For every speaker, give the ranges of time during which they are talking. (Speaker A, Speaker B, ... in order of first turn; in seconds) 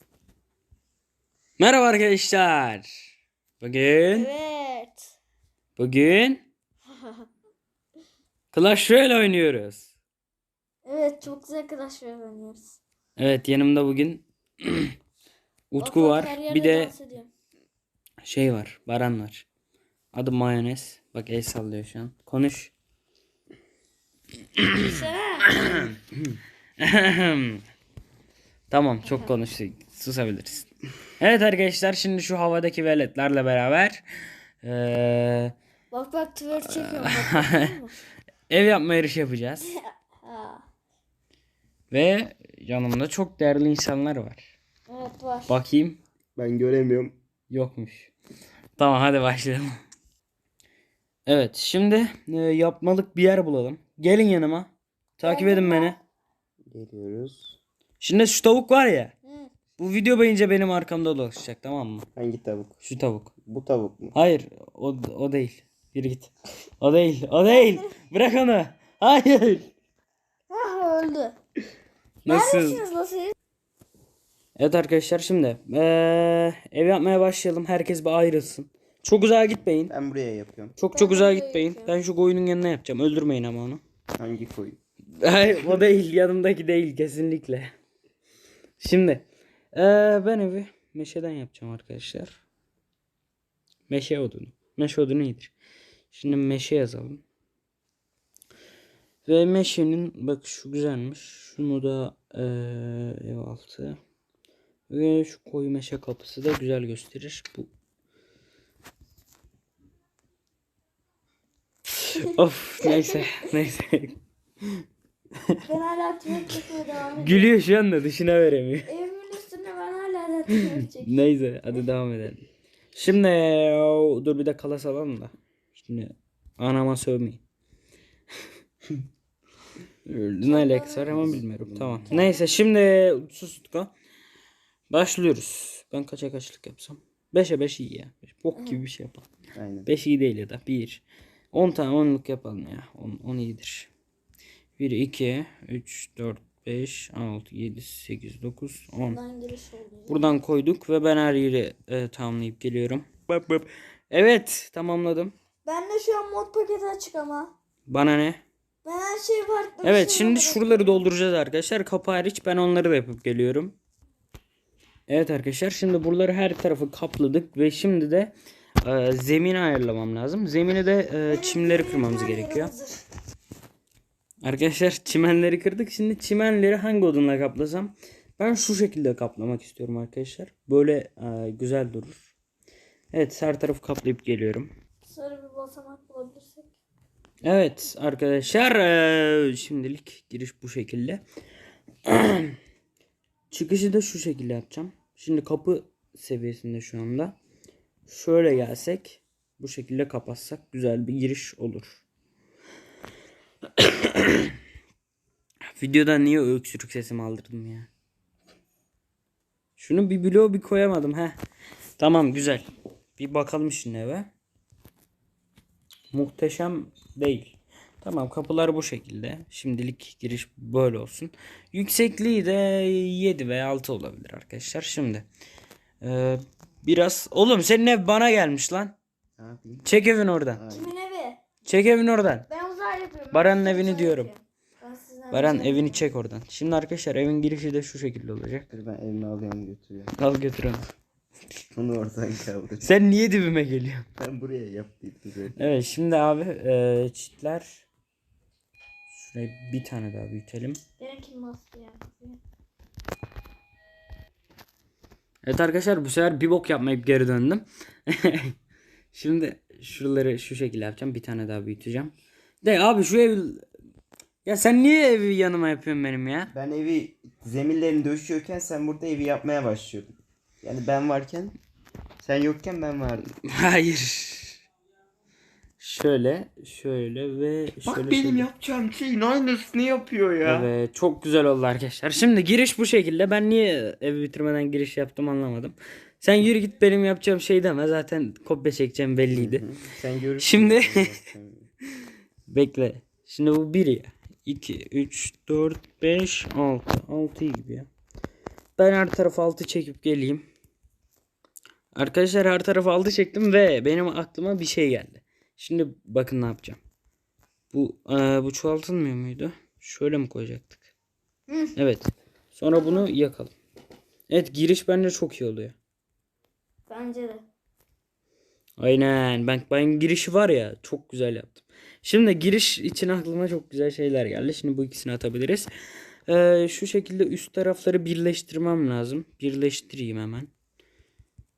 Speaker A: 1.6-3.1, 3.6-4.3, 5.8-6.5, 8.5-9.9, 13.2-14.9, 15.7-16.9, 18.2-19.5, 20.1-22.7, 24.6-25.9, 26.8-27.6, 28.7-30.7, 31.2-34.0, 34.6-35.5, 36.6-37.8, 38.5-39.7, 41.9-44.5, 45.5-46.0, 47.5-48.1, 48.8-49.8, 51.3-56.0, 58.0-59.1, 59.8-62.1, 62.8-63.3, 64.1-69.7, 72.2-72.8, 74.6-79.9, 80.8-83.8, 85.2-87.7, 88.8-92.4, 93.9-95.5, 96.1-97.2, 99.2-104.0, 104.9-107.7, 112.0-114.8, 117.1-118.9, 120.5-127.4, 130.0-133.9, 134.9-139.2, 139.8-143.9, 144.8-149.2, 150.1-155.3, 157.9-158.4, 159.8-163.8, 165.1-172.7, 174.4-182.3, 183.1-184.7, 187.4-191.2, 192.0-192.6, 193.5-197.3, 198.1-202.0, 203.8-204.5, 205.8-207.9, 209.8-211.4, 212.0-212.7, 213.2-214.3, 216.1-225.3, 226.0-228.9, 229.8-230.6, 231.7-232.4, 233.3-234.3, 235.3-238.7, 240.1-240.9, 242.8-244.1, 245.6-247.8, 249.1-250.8, 255.4-258.6, 259.1-263.7, 264.4-266.5, 273.4-274.6, 275.8-278.5, 280.4-289.6, 290.4-291.1, 292.5-297.9, 298.8-300.5, 301.9-306.8, 307.7-310.8, 311.8-313.5, 314.3-315.8, 318.8-325.7, 326.3-330.5
Speaker B: 4.1-5.1, 6.9-7.2, 10.8-12.8, 15.8-17.3, 24.8-25.6, 29.0-29.3, 35.9-37.9, 39.7-40.6, 44.9-45.5, 55.2-56.0, 59.2-59.5, 67.5-67.9, 70.5-71.3, 72.2-73.3, 80.9-81.9, 112.8-113.5, 115.7-117.5, 118.9-121.2, 130.4-131.3, 132.1-132.6, 149.1-150.3, 155.7-157.5, 158.8-161.0, 171.3-173.0, 185.1-186.7, 230.7-231.4, 232.5-236.1, 251.0-252.4, 311.5-311.7, 312.7-313.1, 316.9-317.4
Speaker C: 46.4-47.2, 56.7-57.6, 62.1-62.8, 63.4-64.1, 79.9-80.8, 84.2-84.8, 131.1-132.2, 139.5-139.9, 229.4-229.9, 230.5-230.9, 238.7-240.1, 241.7-242.9, 244.2-245.6, 266.5-271.6, 272.2-273.3, 277.8-280.7, 289.3-291.7